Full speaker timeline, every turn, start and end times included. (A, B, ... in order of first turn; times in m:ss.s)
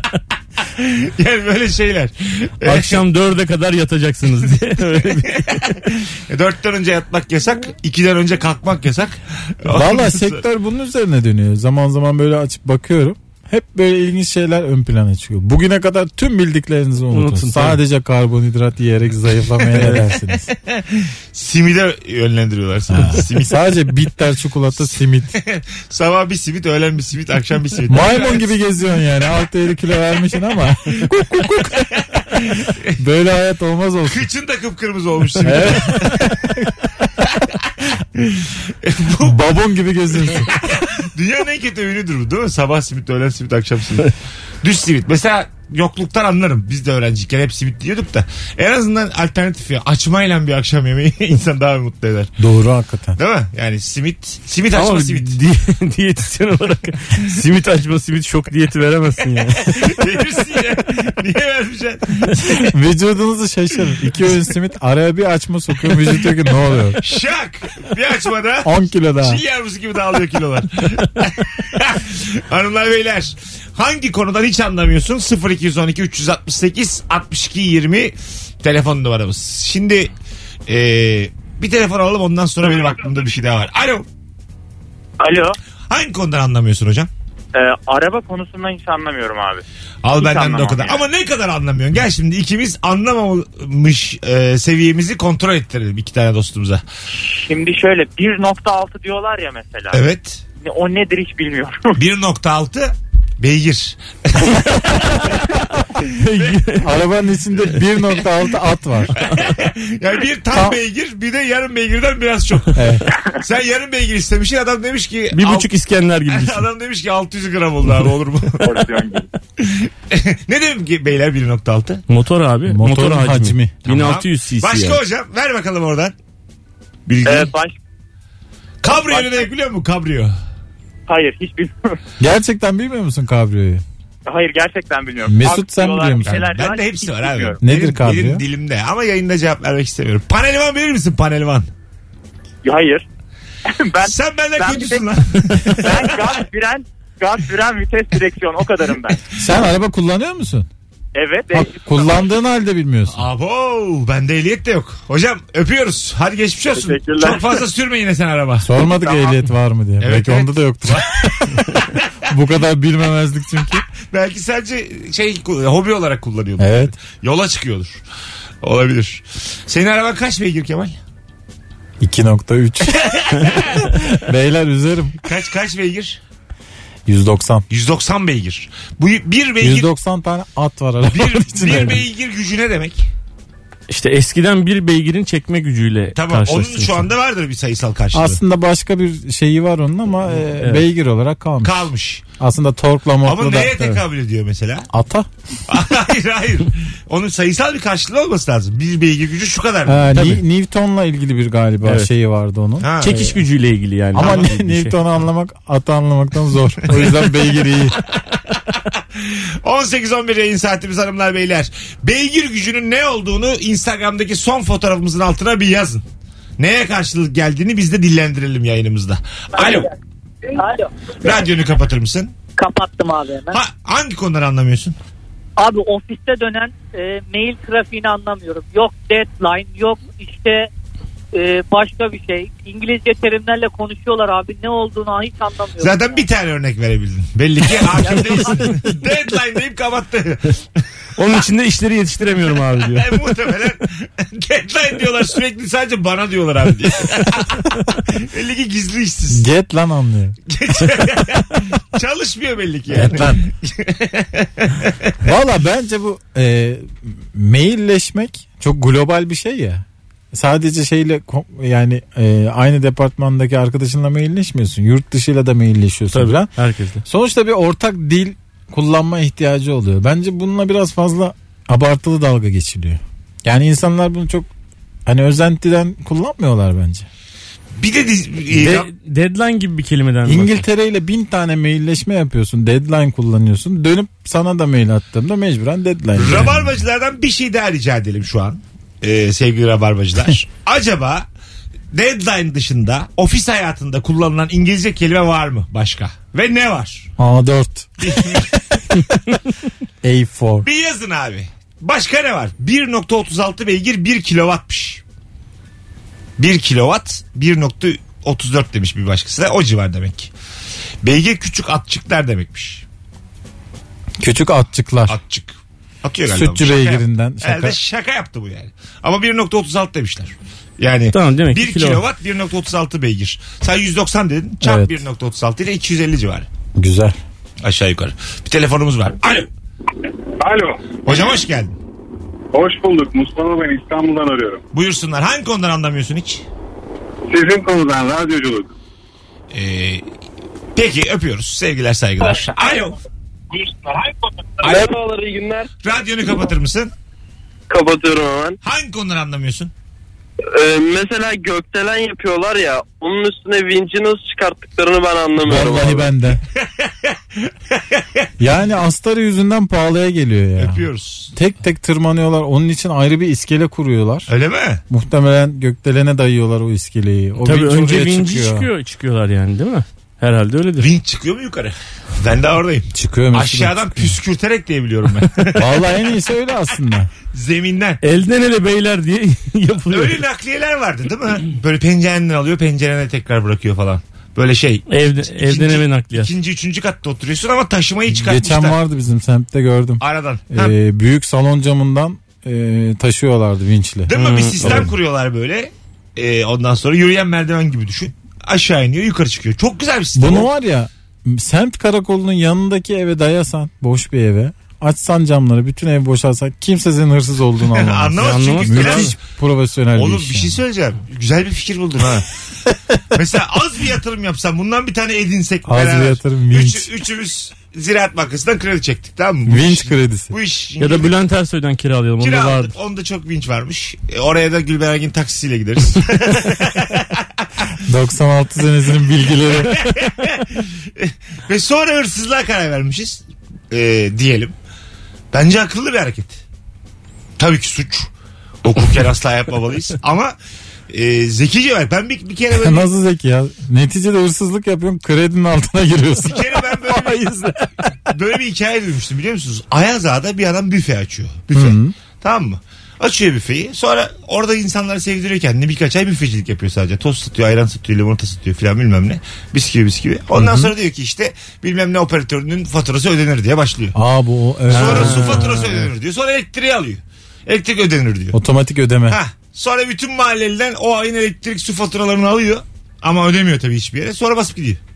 0:00.6-0:03.0 A
0:02.6-0:05.8 B
0:05.4-0:10.4 A
0:09.7-0:20.5 C
0:17.1-0:17.8 B
0:19.6-0:23.8 A
0:19.8-0:20.0 B
0:22.9-0:25.4 C
0:25.3-0:28.5 A
0:27.9-0:32.0 C
0:32.0-0:33.0 A
0:33.0-0:34.3 C
0:34.1-0:36.3 A
0:35.4-0:36.7 C
0:35.4-0:36.2 B
0:37.8-0:39.4 A
0:39.2-0:40.5 C
0:40.3-0:52.3 A
0:52.4-0:53.2 C
0:53.2-0:55.4 A
0:54.7-1:00.0 B
0:59.8-1:02.7 A
1:02.7-1:07.0 C
1:07.0-1:20.1 A
1:08.6-1:09.4 C
1:20.7-1:24.1 A
1:25.2-1:25.6 D
1:25.9-1:27.1 A
1:27.5-1:29.6 D
1:30.0-1:36.8 A
1:30.2-1:31.0 D
1:37.2-1:40.0 D
1:39.9-1:40.4 A
1:40.6-1:42.0 D
1:42.0-1:45.4 A
1:46.0-1:46.6 A
1:46.0-1:47.0 B
1:46.8-1:49.1 C
1:49.2-1:52.8 A
1:52.8-1:53.1 C
1:53.4-1:55.7 A
1:55.3-1:56.7 B
1:56.3-1:58.8 A
1:58.6-1:59.3 D
1:59.6-2:02.0 A
2:02.1-2:05.0 B
2:02.7-2:03.8 C
2:03.8-2:06.2 A
2:07.1-2:07.5 A
2:07.2-2:07.8 D
2:08.8-2:10.4 A
2:08.9-2:09.5 D
2:11.1-2:12.0 D
2:12.2-2:13.8 C
2:14.3-2:17.6 D
2:15.2-2:16.5 C
2:16.2-2:21.7 A
2:17.6-2:18.4 C
2:22.6-2:23.0 D
2:23.7-2:25.1 D
2:24.0-2:26.4 A
2:25.7-2:29.2 D
2:29.4-2:30.7 C
2:31.2-2:32.3 D
2:31.5-2:33.3 C
2:33.1-2:38.7 A
2:36.8-2:37.6 D
2:38.6-2:43.8 C
2:38.9-2:39.4 D
2:40.0-2:42.0 A
2:44.1-2:48.0 A
2:46.6-2:46.9 C
2:48.6-2:51.0 A
2:52.0-2:55.2 C
2:52.9-2:53.9 A
2:55.2-2:56.2 A
2:57.1-2:57.6 C
2:57.7-2:59.9 A
2:59.6-3:02.1 C
3:01.1-3:03.1 A
3:03.9-3:07.1 B
3:06.2-3:08.4 A
3:08.1-3:11.9 C
3:10.4-3:10.8 B
3:11.6-3:12.2 A
3:12.4-3:13.8 C
3:13.2-3:14.9 A
3:14.9-3:15.3 C
3:15.7-3:20.1 A
3:19.8-3:23.2 C
3:20.1-3:20.4 B
3:21.8-3:22.1 B
3:22.8-3:23.4 A
3:23.0-3:25.0 B
3:24.1-3:28.0 C
3:24.2-3:24.4 A
3:28.1-3:36.0 A
3:36.6-3:39.9 A
3:39.6-3:39.9 E
3:40.6-3:40.9 E
3:41.2-3:42.4 A
3:42.6-3:43.6 E
3:43.5-3:45.0 A
3:45.6-3:50.7 E
3:51.3-3:56.1 E
3:55.8-4:00.6 A
4:01.2-4:03.2 B
4:02.9-4:09.4 A
4:09.3-4:10.4 C
4:10.5-4:15.1 A
4:12.9-4:13.4 C
4:15.2-4:26.5 C
4:26.1-4:27.0 B
4:27.0-4:34.5 C
4:35.1-4:37.1 C
4:37.8-4:38.9 A
4:38.5-4:40.6 B
4:40.3-4:46.7 C
4:46.2-4:51.3 A
4:51.9-4:57.1 A
4:57.2-4:59.0 C
4:58.0-4:58.5 A
5:00.0-5:00.7 C
5:00.6-5:05.0 A
5:06.4-5:10.3 A
5:11.0-5:12.8 A
5:14.2-5:15.2 C
5:15.1-5:26.5 A
5:16.3-5:17.8 C
5:21.1-5:22.0 B
5:24.6-5:25.0 C
5:26.8-5:27.2 C
5:27.6-5:29.5 A
5:30.4-5:30.8 F
5:31.0-5:31.7 A
5:32.5-5:34.6 F
5:34.7-5:36.4 A
5:37.3-5:38.7 F
5:39.5-5:40.0 A
5:40.8-5:43.0 A
5:43.5-5:44.8 F
5:44.6-5:45.7 G
5:45.8-5:46.9 A
5:47.7-5:48.6 G
5:48.6-5:49.7 A
5:50.5-5:56.1 G
5:55.4-5:56.4 C
5:56.6-5:58.3 A
5:58.4-6:04.3 C
6:00.6-6:01.3 A
6:04.3-6:04.8 A
6:04.9-6:08.7 C
6:07.4-6:11.0 B
6:10.8-6:15.9 A
6:12.9-6:14.2 C
6:15.5-6:17.1 C
6:17.3-6:18.0 A
6:18.0-6:20.2 B
6:19.9-6:28.8 A
6:24.9-6:26.3 B
6:28.1-6:34.1 C
6:30.0-6:30.8 A
6:34.1-6:40.5 A
6:34.1-6:34.9 B
6:34.6-6:34.9 C
6:40.2-6:50.6 C
6:47.7-6:49.2 A
6:48.2-6:49.1 B
6:49.9-6:52.3 A
6:53.1-7:01.1 A
6:55.6-6:56.9 C
6:59.5-7:00.3 C
7:00.8-7:02.7 B
7:02.2-7:07.2 A
7:07.9-7:09.9 C
7:09.6-7:14.6 A
7:15.3-7:16.4 A
7:17.4-7:18.1 A
7:18.6-7:20.4 A
7:20.9-7:22.9 A
7:22.6-7:27.7 C
7:26.2-7:27.5 A
7:28.1-7:44.0 A
7:31.5-7:32.0 C
7:40.3-7:40.7 C
7:43.9-7:45.5 C
7:44.7-7:48.4 A
7:44.7-7:45.9 B
7:48.3-7:49.2 C
7:49.1-7:54.8 A